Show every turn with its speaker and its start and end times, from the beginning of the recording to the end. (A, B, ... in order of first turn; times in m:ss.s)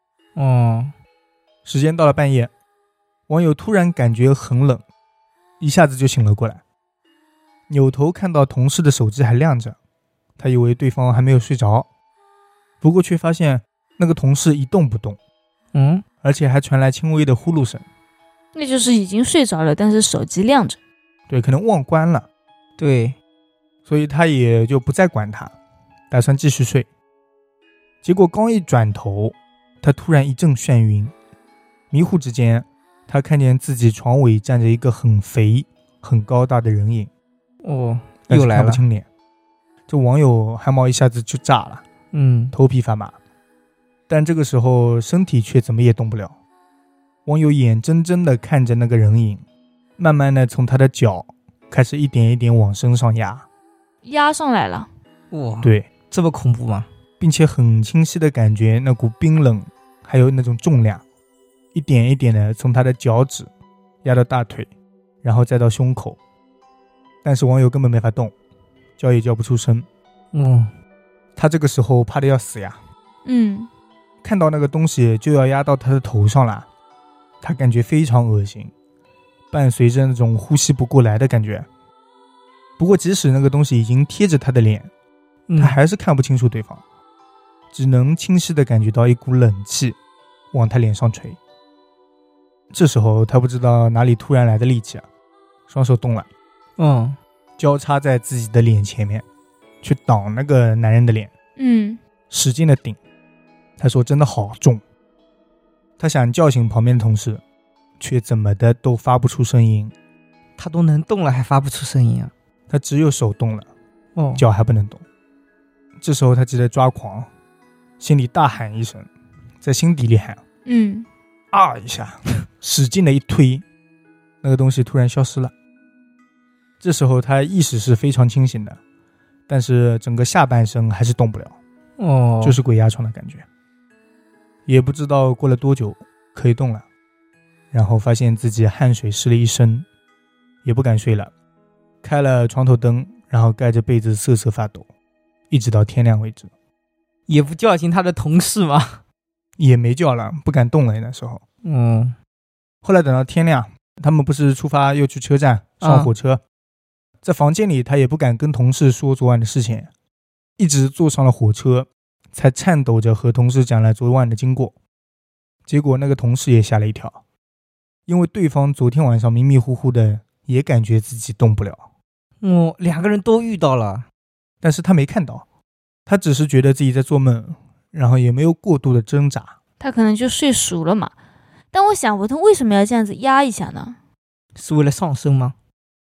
0:00.4-0:00.9 A
0:01.6-0:02.5 B
0:03.3-0:04.8 B
0:05.6-0:06.6 B
0:07.7-0:09.8 B
0:10.4-0:11.9 B
0:12.8-0:15.2 B
0:15.7-0:16.0 A
0:16.2-0:17.8 B
0:18.5-0:20.8 C
0:21.3-0:22.2 B
0:22.8-0:23.2 A
0:23.8-0:25.5 B
0:26.1-0:26.9 B
0:28.0-0:31.1 B
0:31.9-0:37.1 B
0:37.6-0:38.8 A
0:38.3-0:39.0 B
0:39.9-0:41.8 B
0:42.1-0:42.5 A
0:42.5-0:43.1 B
0:44.1-0:46.3 B
0:47.2-0:49.4 B
0:50.0-0:53.4 B
0:54.0-0:54.9 C
0:55.3-0:56.9 A
0:55.6-0:55.9 B
0:57.2-1:01.0 B
1:01.7-1:03.5 B
1:04.0-1:04.7 B
1:05.2-1:06.2 B
1:07.2-1:08.3 B
1:09.0-1:09.9 B
1:10.3-1:10.7 A
1:11.4-1:12.8 B
1:13.2-1:13.7 C
1:14.2-1:16.6 B
1:17.4-1:18.7 B
1:19.5-1:21.7 B
1:22.8-1:24.9 B
1:25.5-1:25.8 A
1:25.6-1:26.8 B
1:27.7-1:30.0 B
1:30.5-1:31.4 B
1:32.7-1:35.0 B
1:35.7-1:36.3 B
1:36.8-1:37.2 A
1:37.6-1:39.2 B
1:39.8-1:41.3 B
1:41.6-1:42.0 C
1:42.3-1:43.0 B
1:43.8-1:44.8 B
1:46.0-1:47.4 B
1:48.0-1:49.9 B
1:50.6-1:52.3 A
1:52.7-1:53.7 B
1:54.2-1:54.4 A
1:54.3-1:55.0 B
1:56.0-1:57.3 B
1:58.0-1:59.1 B
1:59.6-2:00.4 B
2:00.6-2:01.0 C
2:01.5-2:03.6 B
2:04.4-2:05.5 B
2:06.8-2:08.8 B
2:09.5-2:11.5 B
2:12.0-2:12.6 A
2:12.4-2:13.4 B
2:14.6-2:16.8 B
2:17.7-2:19.8 B
2:20.6-2:21.3 B
2:22.0-2:24.9 B
2:25.5-2:26.5 B
2:27.3-2:29.0 A
2:29.6-2:31.4 B
2:31.6-2:32.2 A
2:32.8-2:36.4 B
2:35.8-2:36.1 A
2:37.2-2:39.9 B
2:40.6-2:44.7 B
2:45.7-2:47.2 B
2:48.1-2:51.8 B
2:52.4-2:54.0 A
2:54.6-2:55.4 B
2:56.1-2:59.5 B
2:59.8-3:01.1 C
3:01.7-3:04.0 C
3:04.6-3:05.5 A